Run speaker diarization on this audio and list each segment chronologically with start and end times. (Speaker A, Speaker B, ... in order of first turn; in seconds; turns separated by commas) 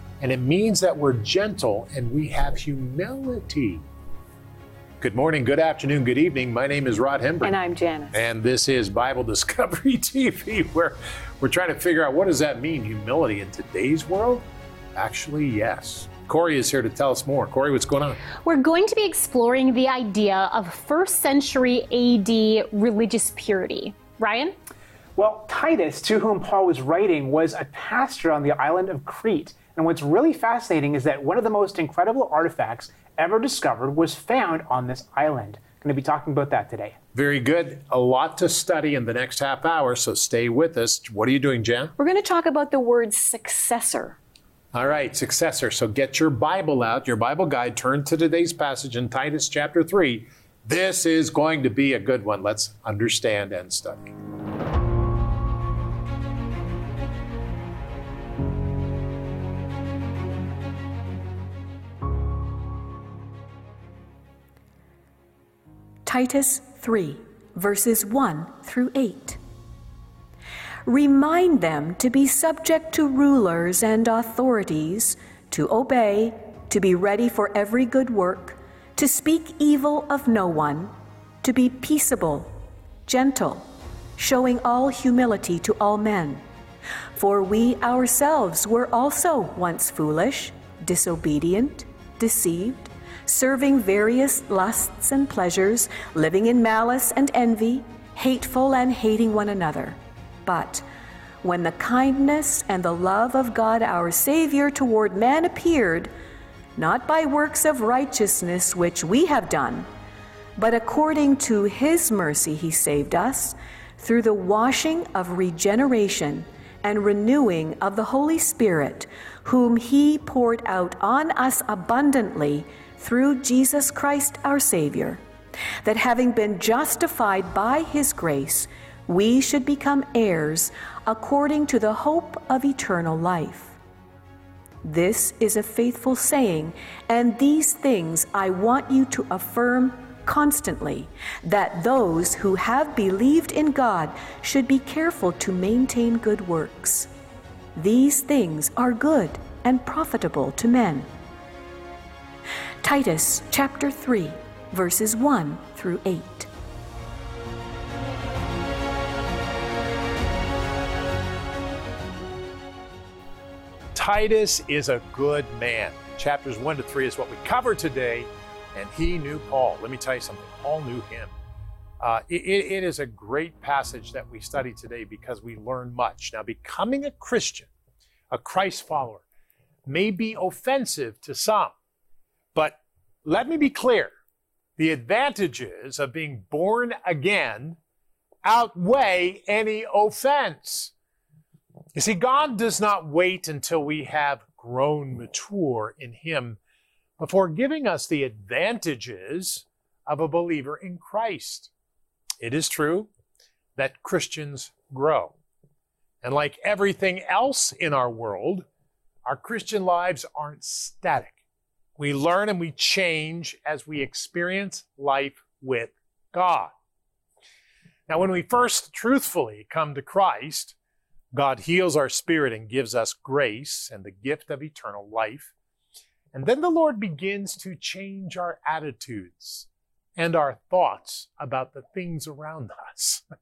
Speaker A: 0.2-3.8, Speaker A: 5.0-7.5, Speaker B: 7.4-8.2, Speaker A: 8.1-18.2, Speaker C: 18.4-24.5, Speaker D: 25.1-37.0, Speaker A: 37.1-41.9, Speaker B: 42.0-44.2, Speaker A: 44.7-54.1, Speaker B: 66.0-69.4, Speaker B: 70.8-80.9, Speaker B: 81.4-82.5, Speaker B: 83.0-83.7, Speaker B: 84.2-86.4, Speaker B: 87.1-100.8, Speaker B: 101.4-106.1, Speaker B: 106.8-109.9, Speaker B: 110.5-125.2, Speaker B: 125.8-133.8, Speaker B: 134.8-147.1, Speaker B: 147.7-151.1, Speaker B: 152.8-156.5, Speaker A: 163.9-171.3, Speaker A: 172.0-177.7, Speaker A: 178.3-179.2, Speaker A: 179.9-181.7, Speaker A: 182.5-184.1, Speaker A: 184.8-187.8, Speaker A: 188.4-190.9, Speaker A: 191.9-196.6, Speaker A: 197.2-201.7, Speaker A: 202.4-203.1, Speaker A: 203.8-205.3, Speaker A: 206.2-208.6, Speaker A: 209.2-211.4, Speaker A: 212.0-216.7, Speaker A: 218.1-220.7, Speaker A: 221.3-225.5, Speaker A: 226.3-233.2